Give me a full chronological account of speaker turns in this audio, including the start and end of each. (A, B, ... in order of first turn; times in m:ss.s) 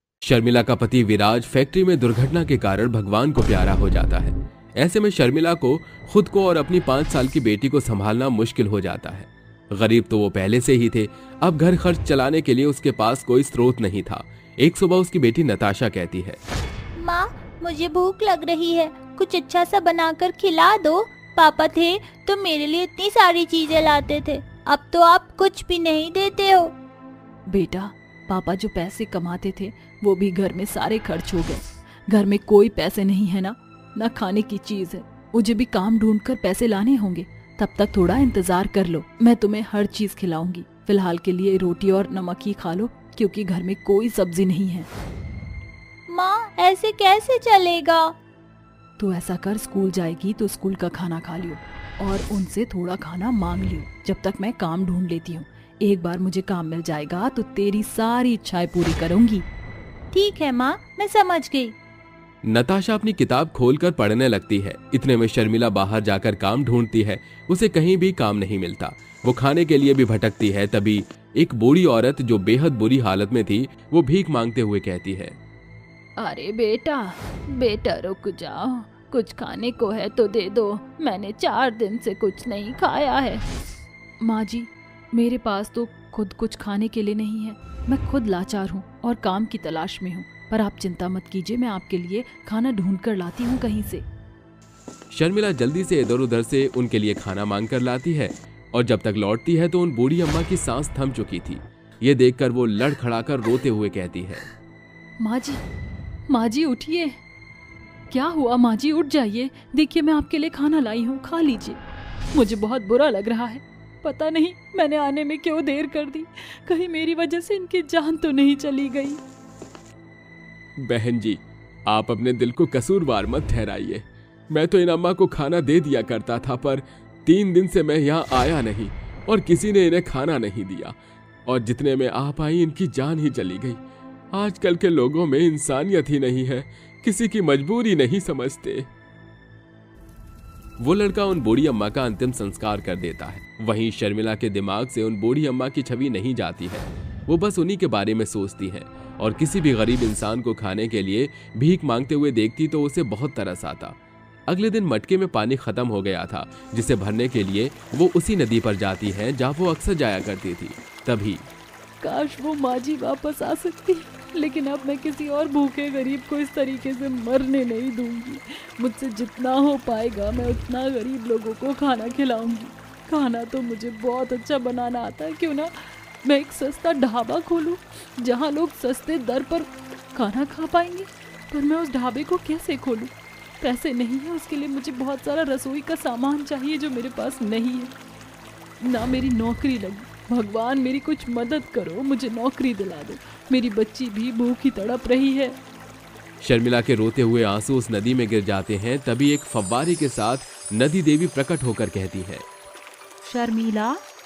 0:00.2-0:16.4 A
0:17.0-0:22.1 B
0:20.0-0:20.5 C
0:21.9-0:22.3 C
0:22.6-0:24.0 B
0:24.0-0:25.2 C
0:25.0-0:26.7 B
0:27.5-0:44.9 C
0:46.1-0:48.1 C
0:49.0-0:59.4 C
1:00.1-1:01.7 C
1:02.4-1:15.4 A
1:16.2-1:23.5 C
1:24.2-1:34.0 C
1:35.1-1:44.5 A
1:45.2-1:45.6 C
1:46.3-1:47.2 C
1:48.1-1:51.8 C
1:52.3-1:59.2 C
2:00.8-2:11.0 A
2:11.5-2:13.8 A
2:14.3-2:18.9 A
2:20.8-2:34.0 A
2:34.5-2:41.4 A
2:42.0-3:07.9 C
3:08.8-3:15.6 C
3:16.4-3:22.4 A
3:23.2-3:24.0 C